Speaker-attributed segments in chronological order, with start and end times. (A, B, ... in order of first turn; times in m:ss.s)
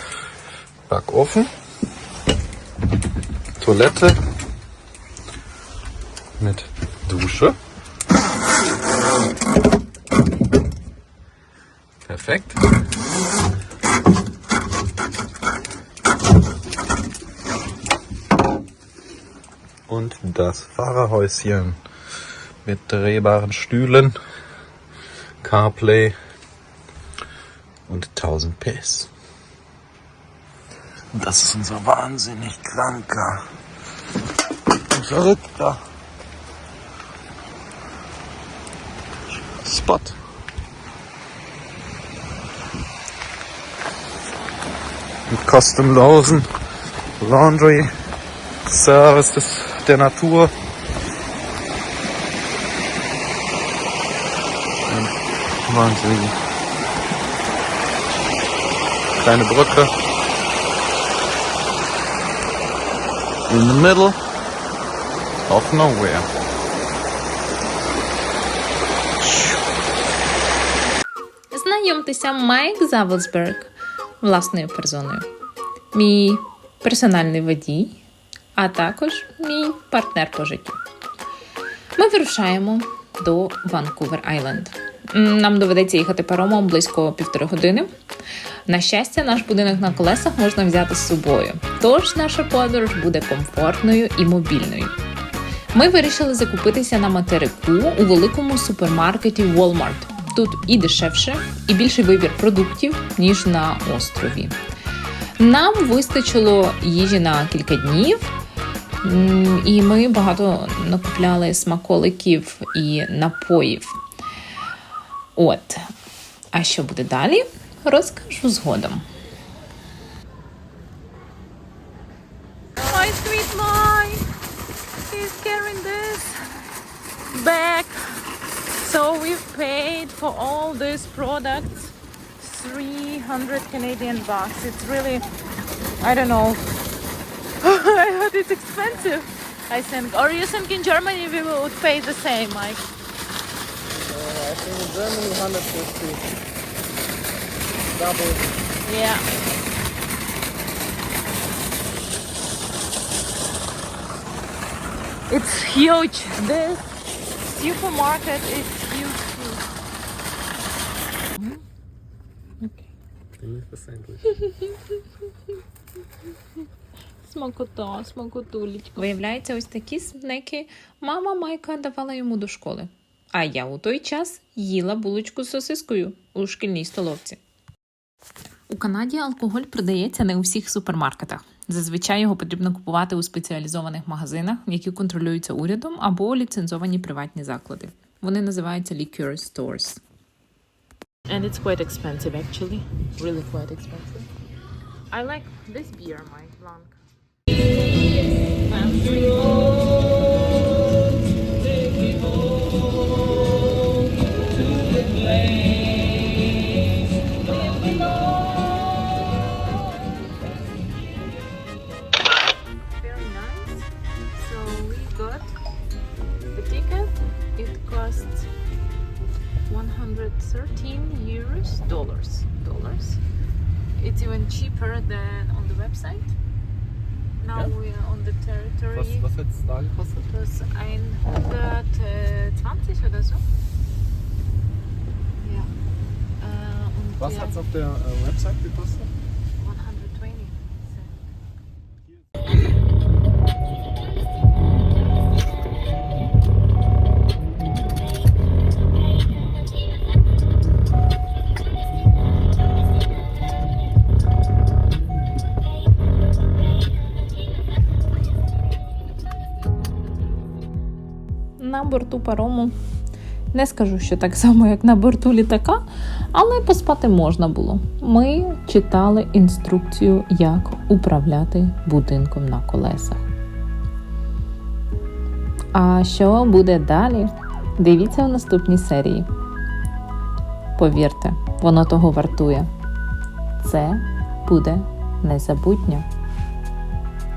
0:00.9-0:01.5 A
0:03.6-0:04.2 A
0:06.4-0:07.5 A
0:12.0-0:12.6 A
0:19.9-0:21.8 A
0:22.6-0:24.1 A
0:25.4-0:26.1 A
0:27.9-0:29.1 A
0:31.1-0:33.4 A
0:34.8-0:35.8 A
0:39.6-0:40.2 A
0:45.3-0:46.4 A
0:47.2-0:47.9 A
0:48.6-0:50.5 A
0:54.9-0:55.1 A
0:55.6-0:56.3 A
0:59.2-0:59.9 A
1:03.5-1:04.2 A
1:05.5-1:06.3 A
1:09.2-1:09.5 A
1:11.5-1:15.2 B
1:15.9-1:18.0 B
1:18.6-1:20.8 B
1:22.0-1:27.9 B
1:28.7-1:34.9 B
1:35.7-1:44.6 B
1:45.4-1:48.3 B
1:49.0-1:54.0 B
1:55.4-1:55.9 B
1:56.5-1:59.0 B
2:02.8-2:04.2 C
2:02.9-2:03.7 B
2:05.1-2:06.4 C
2:07.3-2:08.0 C
2:08.8-2:15.2 C
2:16.0-2:16.6 C
2:17.6-2:22.8 C
2:24.2-2:26.1 A
2:28.0-2:28.3 A
2:28.8-2:29.2 C
2:35.3-2:36.9 C
2:37.4-2:39.6 C
2:43.4-2:44.1 A
2:47.2-2:57.4 B
2:58.7-3:10.0 B
3:11.3-3:13.6 C
3:13.2-3:14.2 B
3:15.1-3:16.9 B
3:18.9-3:19.4 C
3:27.5-3:28.4 C
3:33.0-3:33.8 B
3:34.4-3:35.4 B
3:34.5-3:35.4 C
3:36.6-3:38.4 C
3:39.7-3:43.2 B
3:40.6-3:41.5 C
3:44.0-3:46.3 C
3:47.4-3:49.2 C
3:48.9-3:50.3 A
3:50.3-3:53.4 C
3:50.5-3:51.3 B
3:52.5-3:53.3 B
3:55.4-3:55.7 C
3:56.4-3:57.5 C
3:57.2-3:59.1 A
3:59.6-4:00.6 C
4:21.6-4:22.7 B
4:23.5-4:33.2 B
4:35.7-4:39.3 B
4:40.8-4:42.7 B
4:43.6-4:46.0 B